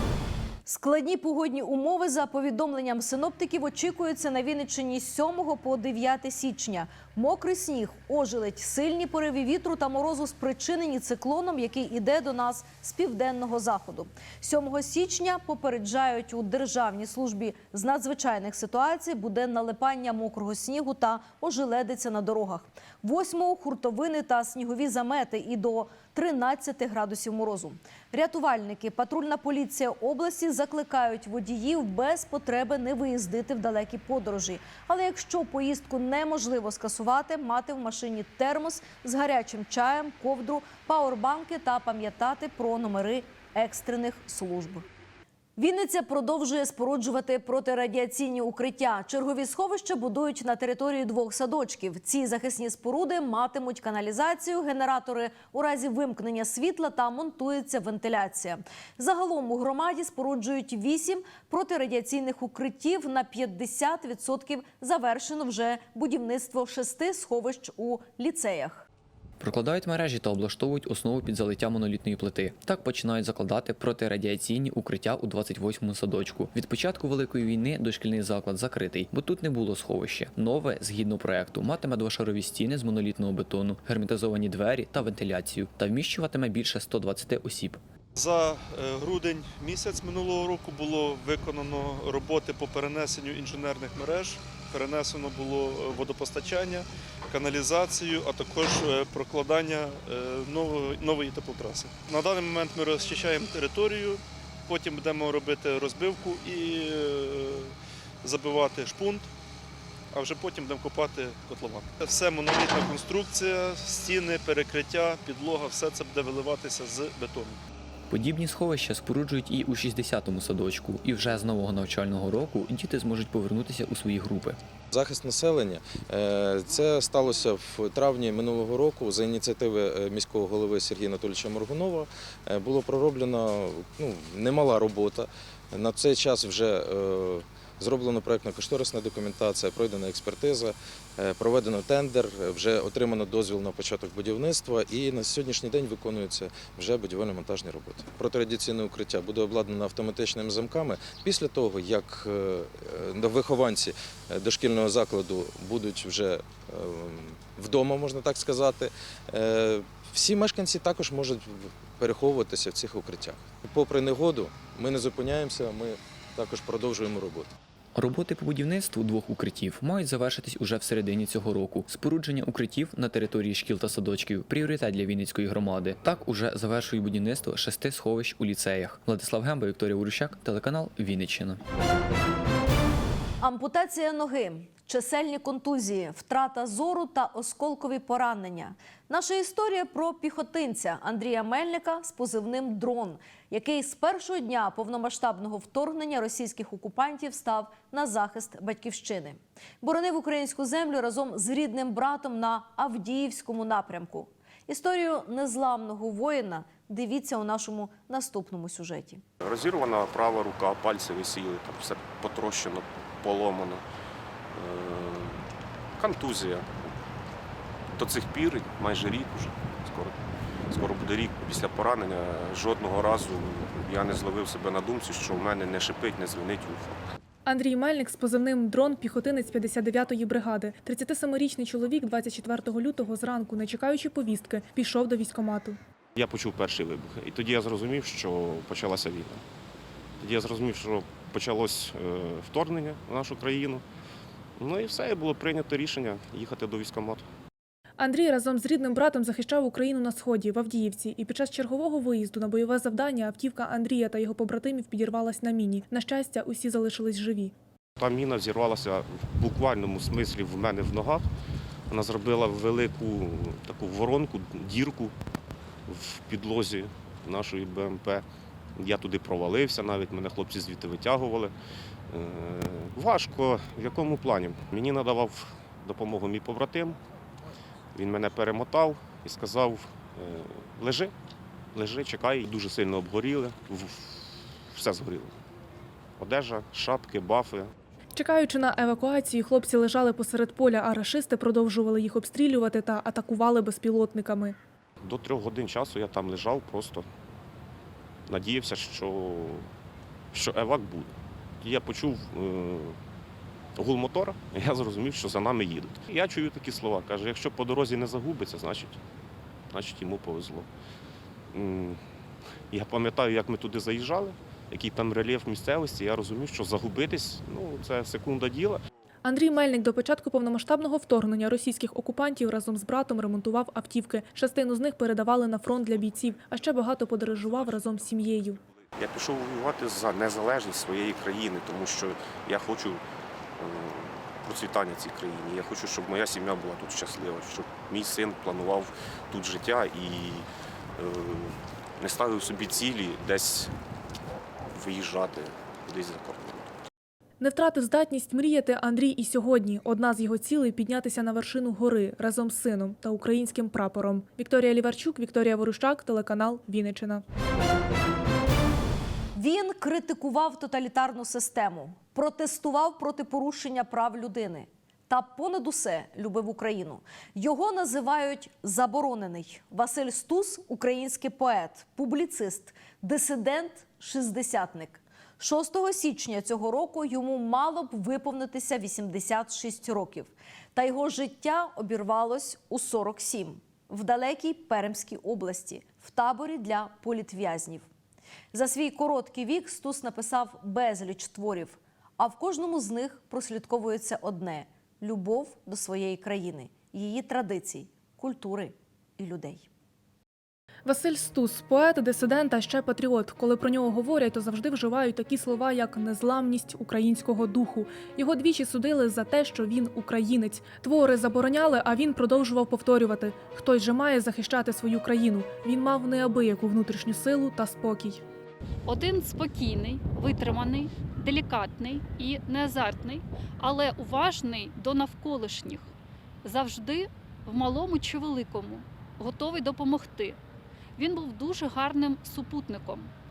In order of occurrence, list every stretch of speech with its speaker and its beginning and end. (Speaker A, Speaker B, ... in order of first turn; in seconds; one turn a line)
Speaker A: 0.7-44.9
Speaker A: 45.6-68.9
Speaker B: 69.4-87.8
Speaker C: 88.2-107.7
Speaker C: 108.2-109.3
Speaker C: 110.1-117.6
Speaker B: 118.1-124.6
Speaker D: 124.9-167.5
Speaker B: 167.9-181.6
Speaker A: 183.4-209.2
Speaker E: 209.4-213.8
Speaker E: 214.5-215.4
Speaker E: 216.0-216.9
Speaker E: 217.9-220.2
Speaker E: 220.7-227.0
Speaker F: 227.5-235.8
Speaker E: 236.2-239.4
Speaker E: 240.2-243.8
Speaker E: 244.6-247.3
Speaker F: 248.0-257.5
Speaker E: 258.0-261.3
Speaker E: 261.9-265.1
Speaker E: 265.9-268.2
Speaker E: 268.8-271.5
Speaker E: 272.1-277.0
Speaker E: 277.9-281.1
Speaker E: 281.7-285.3
Speaker E: 286.2-287.7
Speaker F: 288.2-294.6
Speaker E: 295.0-297.1
Speaker E: 298.3-299.7
Speaker E: 300.3-303.0
Speaker E: 303.8-309.0
Speaker E: 309.7-310.7
Speaker E: 311.5-312.0
Speaker E: 312.7-318.8
Speaker F: 319.2-328.6
Speaker E: 329.0-333.0
Speaker E: 333.6-343.8
Speaker E: 344.7-346.7
Speaker F: 347.4-357.2
Speaker A: 359.4-387.9
Speaker A: 388.5-399.7
Speaker F: 400.9-418.2
Speaker G: 418.9-425.9
Speaker G: 426.4-430.4
Speaker G: 431.0-433.1